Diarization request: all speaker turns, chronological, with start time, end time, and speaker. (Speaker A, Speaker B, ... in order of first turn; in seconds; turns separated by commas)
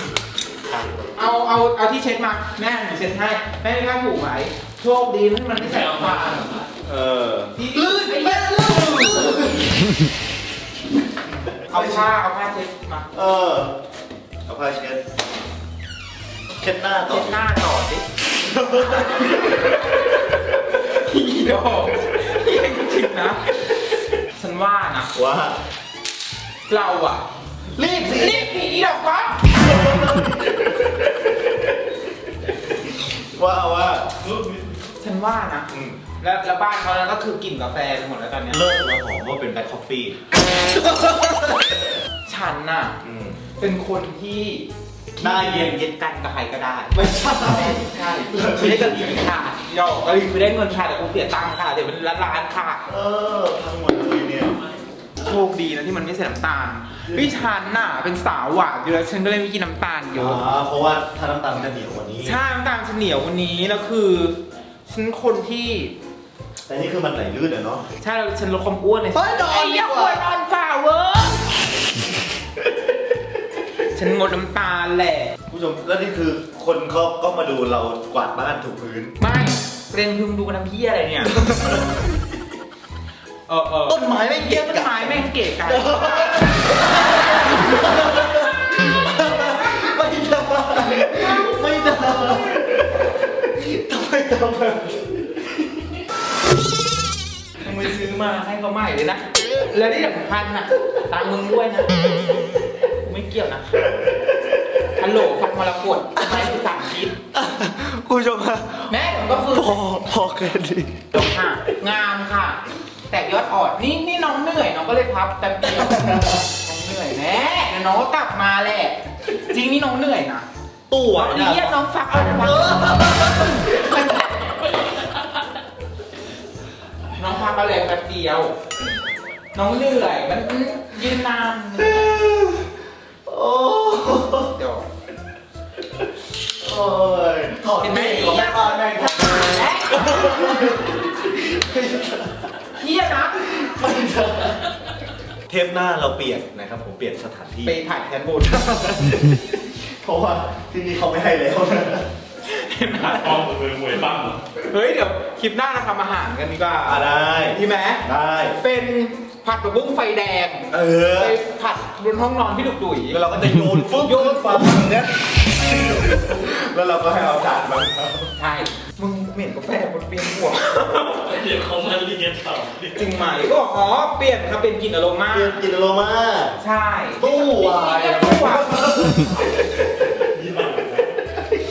Speaker A: 1.1-6.6, Speaker B: 6.8-9.7, Speaker A: 7.6-9.5, Speaker B: 11.7-12.1, Speaker A: 11.7-13.1, Speaker B: 13.1-13.8, Speaker B: 14.5-15.0, Speaker B: 16.6-17.4, Speaker A: 17.1-18.1, Speaker B: 18.3-20.1, Speaker A: 19.2-23.4, Speaker A: 24.3-25.1, Speaker B: 25.1-25.6, Speaker A: 26.7-27.2, Speaker B: 27.8-28.6, Speaker A: 28.1-29.5, Speaker B: 29.5-31.8, Speaker B: 32.6-34.1, Speaker A: 35.0-38.6, Speaker B: 35.7-36.0, Speaker B: 38.5-41.8, Speaker A: 42.3-43.0, Speaker B: 43.0-43.4, Speaker A: 43.6-44.7, Speaker A: 45.2-52.8, Speaker B: 45.2-45.8, Speaker B: 46.9-49.2, Speaker B: 52.9-54.6, Speaker A: 55.2-60.4, Speaker B: 60.1-62.4, Speaker A: 62.2-66.0, Speaker B: 66.7-67.8, Speaker A: 68.0-71.5, Speaker B: 69.1-70.2, Speaker A: 73.9-75.3, Speaker B: 75.5-79.2, Speaker A: 79.2-81.5, Speaker B: 81.4-82.0, Speaker A: 83.5-86.7, Speaker B: 83.9-95.6, Speaker A: 91.1-91.5, Speaker A: 97.6-102.0, Speaker A: 102.8-104.0, Speaker B: 103.8-104.9, Speaker A: 105.0-107.2, Speaker B: 106.2-106.5, Speaker B: 107.3-109.0, Speaker A: 108.9-109.8, Speaker B: 109.5-111.1, Speaker A: 111.1-120.5, Speaker B: 115.7-116.4, Speaker B: 120.9-124.0, Speaker A: 121.1-124.6, Speaker A: 127.1-128.5, Speaker A: 129.5-132.3, Speaker B: 131.8-132.7, Speaker B: 133.3-134.5, Speaker A: 134.5-134.9, Speaker B: 136.6-142.4, Speaker A: 137.8-140.5, Speaker A: 142.8-143.6, Speaker B: 143.5-144.7, Speaker B: 145.5-147.8, Speaker A: 147.7-148.7, Speaker B: 148.5-152.1, Speaker A: 152.4-153.5, Speaker C: 153.3-154.3, Speaker A: 154.6-158.0, Speaker B: 156.8-158.6, Speaker A: 158.6-163.2, Speaker B: 160.7-161.4, Speaker B: 163.1-168.3, Speaker A: 163.8-164.8, Speaker A: 168.3-171.5, Speaker C: 171.3-172.8, Speaker A: 172.8-175.6, Speaker B: 175.3-176.6, Speaker A: 176.6-179.3, Speaker B: 177.2-180.8, Speaker C: 180.4-181.0